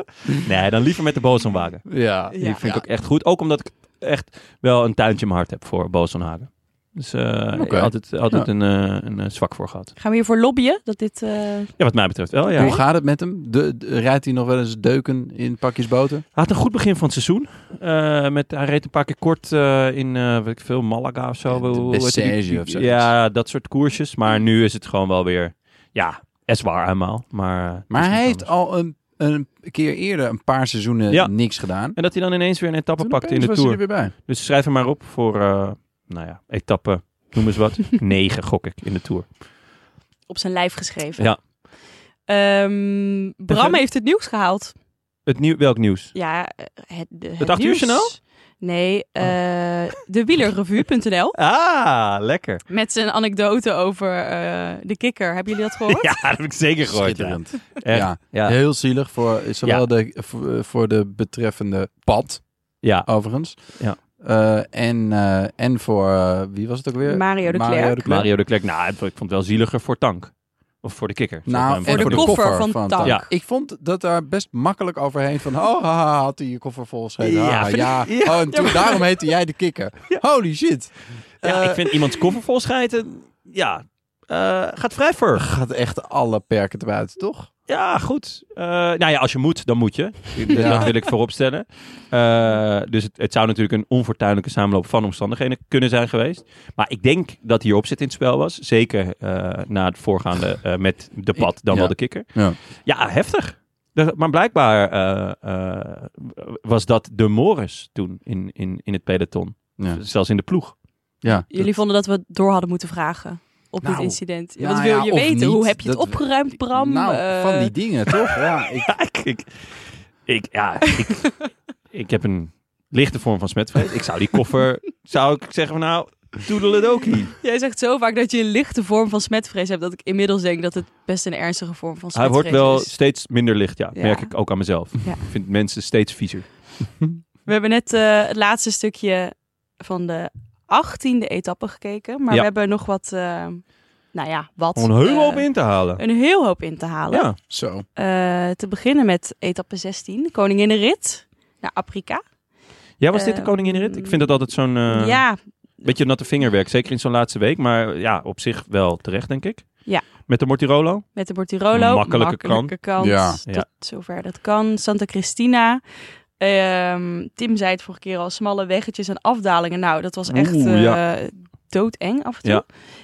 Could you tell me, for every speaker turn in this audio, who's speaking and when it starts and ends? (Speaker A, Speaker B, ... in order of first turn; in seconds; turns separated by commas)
Speaker A: 0.3-9.9, Speaker B: 1.9-2.9, Speaker C: 2.3-2.6, Speaker B: 7.5-8.5, Speaker C: 10.0-11.8, Speaker A: 11.8-12.8, Speaker C: 12.6-12.8, Speaker B: 12.6-16.2, Speaker A: 16.4-28.5, Speaker B: 21.5-23.1, Speaker B: 27.9-32.0, Speaker A: 31.1-39.3, Speaker B: 33.0-34.1, Speaker C: 40.3-41.3, Speaker C: 42.3-44.7, Speaker A: 43.5-43.8, Speaker A: 45.3-46.1, Speaker C: 46.1-51.4, Speaker A: 47.4-48.1, Speaker A: 51.4-52.6, Speaker C: 52.7-56.1, Speaker A: 55.9-58.6, Speaker B: 56.9-68.3, Speaker A: 62.8-64.0, Speaker C: 67.0-68.0, Speaker A: 68.1-72.4, Speaker B: 71.5-82.1, Speaker C: 71.9-73.2, Speaker A: 77.2-79.0, Speaker A: 81.4-85.5, Speaker B: 85.3-87.5, Speaker A: 87.7-110.8, Speaker B: 90.5-90.9, Speaker B: 101.4-102.6, Speaker B: 111.2-111.5, Speaker C: 111.5-117.7, Speaker B: 113.8-118.9, Speaker A: 118.9-127.3, Speaker C: 127.4-132.9, Speaker A: 132.1-136.5, Speaker C: 133.9-134.3, Speaker C: 137.5-147.3, Speaker A: 144.8-146.0, Speaker A: 147.1-147.4, Speaker B: 147.5-147.9, Speaker C: 148.0-152.2, Speaker A: 153.0-155.2, Speaker C: 153.1-154.3, Speaker C: 154.9-155.4, Speaker A: 155.8-161.1, Speaker C: 161.2-165.8, Speaker A: 161.7-162.7, Speaker B: 163.0-163.4, Speaker C: 166.4-172.7, Speaker A: 170.3-171.0